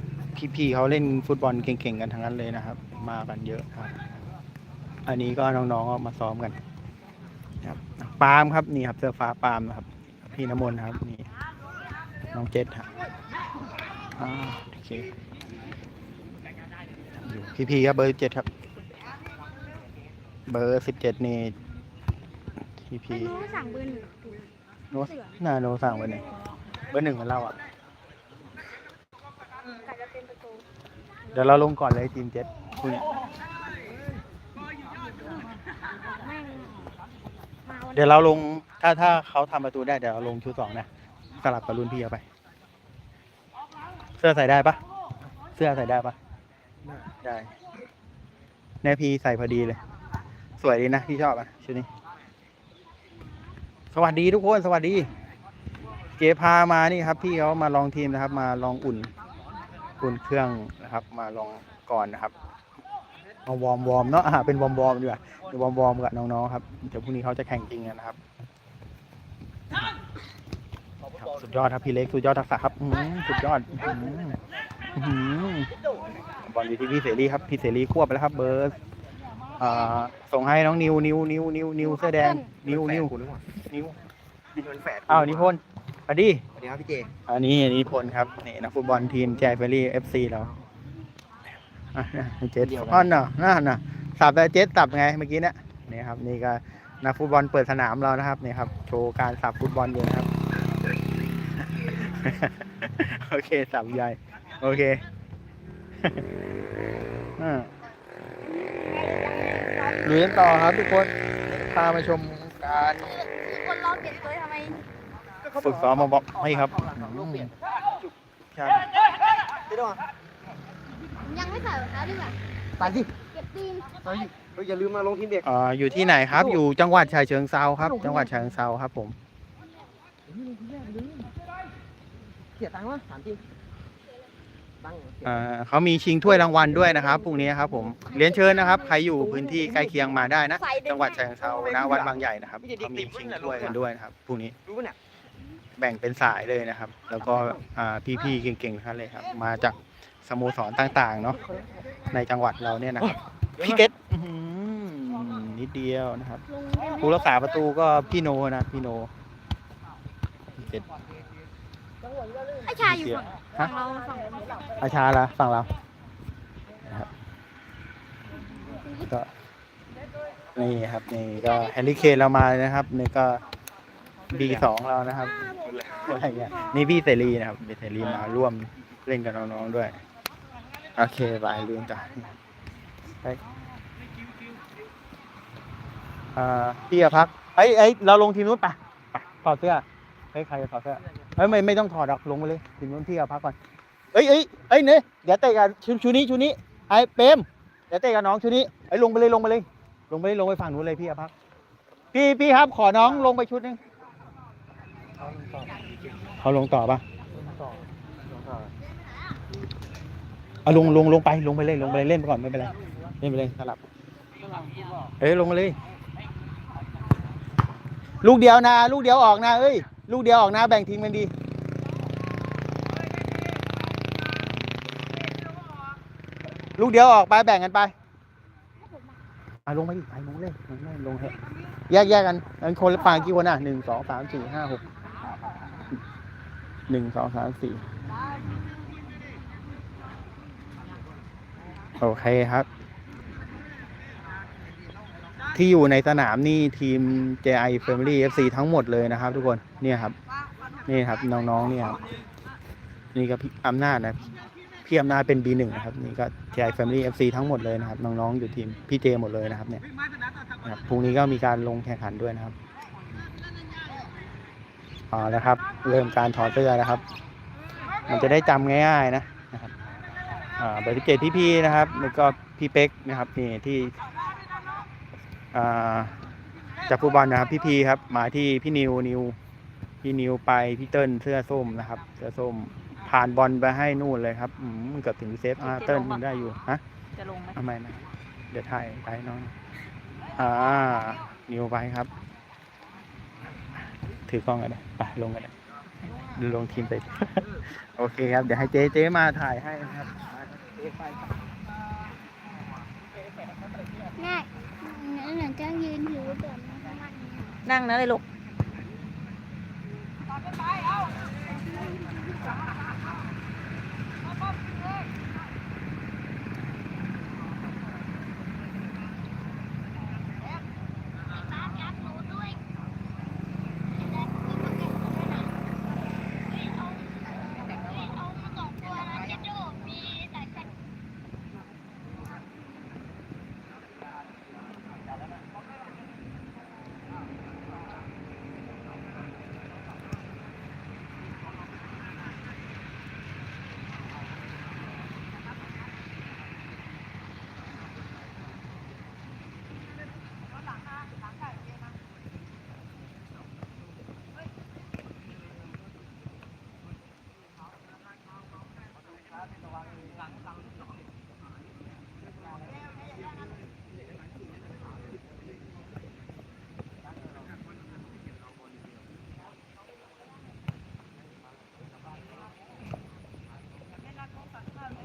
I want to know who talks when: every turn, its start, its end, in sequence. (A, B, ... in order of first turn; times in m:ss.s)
0:00.3-0:04.1 A
0:05.0-0:06.6 A
0:07.6-0:11.3 A
0:12.3-0:12.9 A
0:14.2-0:15.1 A
0:17.2-0:18.4 A
0:20.5-0:21.5 A
0:22.8-0:23.3 A
0:23.1-0:24.5 B
0:24.9-0:26.2 A
0:25.0-0:25.3 B
0:26.9-0:27.5 A
0:29.7-0:30.6 B
0:31.3-0:33.1 A
0:36.1-0:36.8 B
0:37.6-0:38.2 B
0:37.9-0:40.9 A
0:41.4-0:42.2 A
0:44.2-0:44.8 A
0:45.6-0:46.2 A
0:47.2-0:47.5 A
0:48.8-0:49.8 A
0:50.6-0:51.9 A
0:53.9-0:55.1 A
0:56.2-0:59.1 A
1:00.0-1:02.3 A
1:03.4-1:08.2 A
1:11.2-1:14.4 A
1:14.9-1:15.7 A
1:16.4-1:18.8 A
1:19.6-1:24.0 A
1:21.8-1:22.5 B
1:22.6-1:23.4 C
1:24.6-1:25.5 C
1:25.1-1:26.4 A
1:26.5-1:27.1 C
1:27.3-1:30.5 A
1:31.9-1:40.3 A
1:32.6-1:33.1 C
1:41.8-1:45.0 A
1:46.0-1:46.3 A
1:47.4-1:47.7 A
1:48.4-1:50.4 B
1:50.0-1:53.1 A
1:53.1-1:54.8 B
1:55.5-1:57.5 C
1:55.6-1:57.5 A
1:58.5-1:58.9 A
1:59.5-2:00.0 C
2:01.2-2:02.4 B
2:02.8-2:03.1 C
2:03.2-2:04.0 B
2:04.0-2:05.5 C
2:05.4-2:09.2 A
2:07.8-2:08.3 C
2:10.3-2:11.3 C
2:12.6-2:13.4 C
2:14.8-2:15.3 C
2:15.2-2:24.6 A
2:19.3-2:19.7 C
2:20.6-2:21.0 B
2:21.4-2:23.8 C
2:24.6-2:25.0 C
2:25.8-2:31.4 A
2:32.1-2:36.4 A
2:36.5-2:37.5 B
2:37.0-2:39.1 A
2:40.5-2:40.8 A
2:42.6-2:44.7 B
2:42.8-2:43.7 A
2:43.6-2:44.1 D
2:44.8-2:45.7 A
2:48.4-2:49.1 B
2:50.5-2:53.4 A
2:54.3-3:00.0 A
2:56.1-2:56.7 B
3:01.0-3:02.3 A
3:06.3-3:13.6 A
3:14.1-3:21.3 A
3:22.1-3:23.8 A
3:25.2-3:25.8 C
3:26.4-3:27.0 A
3:27.3-3:28.7 C
3:30.6-3:33.8 A
3:35.2-3:35.8 A
3:38.2-3:41.3 A
3:46.8-3:47.9 A
3:48.8-3:49.1 B
3:49.7-3:51.4 A
3:51.9-3:54.8 A
3:56.9-3:57.8 A
4:02.0-4:02.7 A
4:05.5-4:10.2 A
4:10.8-4:12.0 A
4:13.1-4:19.8 A
4:20.6-4:22.6 A
4:25.1-4:27.0 A
4:28.0-4:29.7 A
4:30.6-4:34.0 A
4:35.5-4:36.2 A
4:36.9-4:39.4 A
4:40.0-4:46.8 A
4:45.6-4:46.2 D
4:47.2-4:47.6 D
4:47.5-4:49.5 A
4:50.3-4:52.1 A
4:54.3-4:55.5 A
4:56.2-5:00.4 A
5:00.8-5:01.2 C
5:04.2-5:07.6 B
5:07.6-5:08.2 D
5:11.5-5:12.4 B
5:21.4-5:22.6 B
5:24.0-5:25.5 B
5:27.5-5:30.6 B